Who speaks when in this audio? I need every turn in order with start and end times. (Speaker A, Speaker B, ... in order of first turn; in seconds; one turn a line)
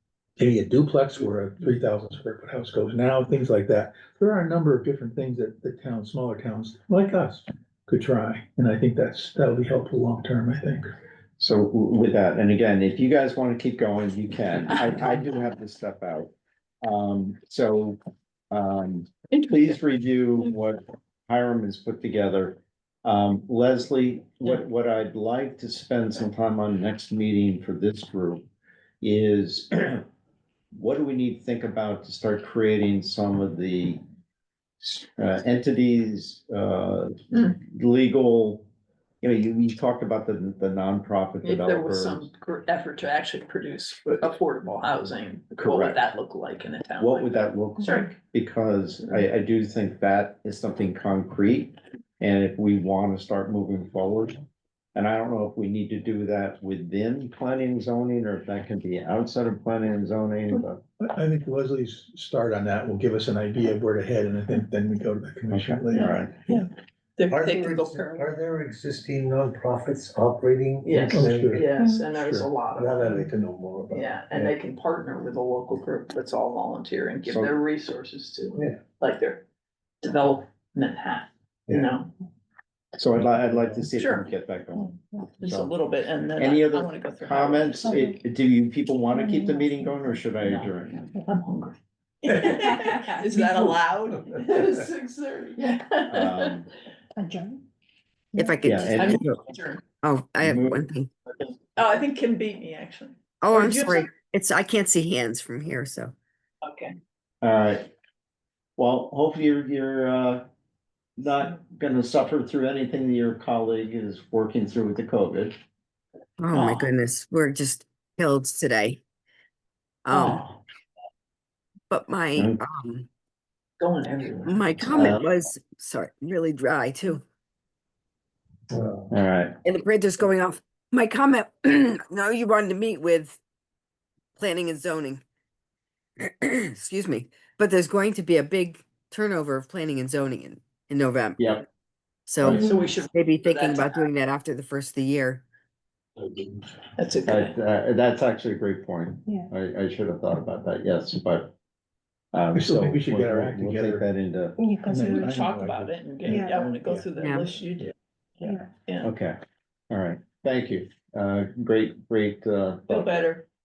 Speaker A: 0.4-10.9
Speaker B: 11.4-18.0
Speaker B: 18.5-28.4
Speaker C: 19.3-19.6
Speaker B: 29.0-30.1
Speaker B: 30.7-34.0
Speaker B: 34.8-38.7
Speaker B: 39.2-42.3
Speaker C: 41.4-48.1
Speaker B: 45.6-46.0
Speaker B: 47.0-54.4
Speaker B: 54.9-60.8
Speaker A: 61.0-66.6
Speaker B: 65.5-66.4
Speaker C: 67.2-68.3
Speaker D: 67.3-71.7
Speaker C: 70.8-73.3
Speaker A: 71.1-72.5
Speaker E: 71.8-72.0
Speaker D: 72.8-74.5
Speaker C: 73.9-79.4
Speaker B: 77.2-77.6
Speaker C: 80.0-82.1
Speaker B: 83.0-85.7
Speaker C: 84.0-84.3
Speaker C: 85.4-88.0
Speaker B: 86.4-91.1
Speaker E: 89.1-90.3
Speaker C: 90.5-96.5
Speaker B: 96.1-96.7
Speaker E: 97.2-97.6
Speaker E: 98.3-98.7
Speaker F: 98.4-99.4
Speaker B: 98.6-99.2
Speaker C: 98.9-99.8
Speaker F: 100.0-101.1
Speaker B: 100.4-100.8
Speaker C: 101.8-104.1
Speaker F: 103.4-106.1
Speaker C: 106.6-107.0
Speaker B: 107.4-107.9
Speaker B: 108.8-110.4
Speaker B: 111.2-115.5
Speaker F: 116.4-119.0
Speaker C: 116.5-116.9
Speaker F: 120.0-120.5
Speaker C: 120.1-120.6
Speaker F: 121.9-123.1
Speaker B: 122.3-122.6
Speaker C: 123.8-124.6
Speaker F: 124.4-127.2
Speaker B: 124.8-125.2
Speaker D: 128.7-129.1
Speaker B: 129.1-129.5
Speaker F: 129.6-133.4
Speaker F: 134.3-135.2
Speaker F: 136.2-141.4
Speaker B: 141.4-141.6
Speaker F: 142.3-145.4
Speaker E: 142.5-142.9
Speaker C: 142.6-144.1
Speaker B: 146.2-146.5
Speaker C: 147.0-147.6
Speaker B: 147.2-151.5
Speaker B: 152.3-154.6
Speaker A: 152.5-154.1
Speaker E: 154.6-155.5
Speaker A: 154.8-157.1
Speaker C: 154.9-159.1
Speaker E: 156.2-156.7
Speaker F: 157.2-157.5
Speaker B: 159.0-159.4
Speaker B: 159.9-163.2
Speaker C: 162.9-163.5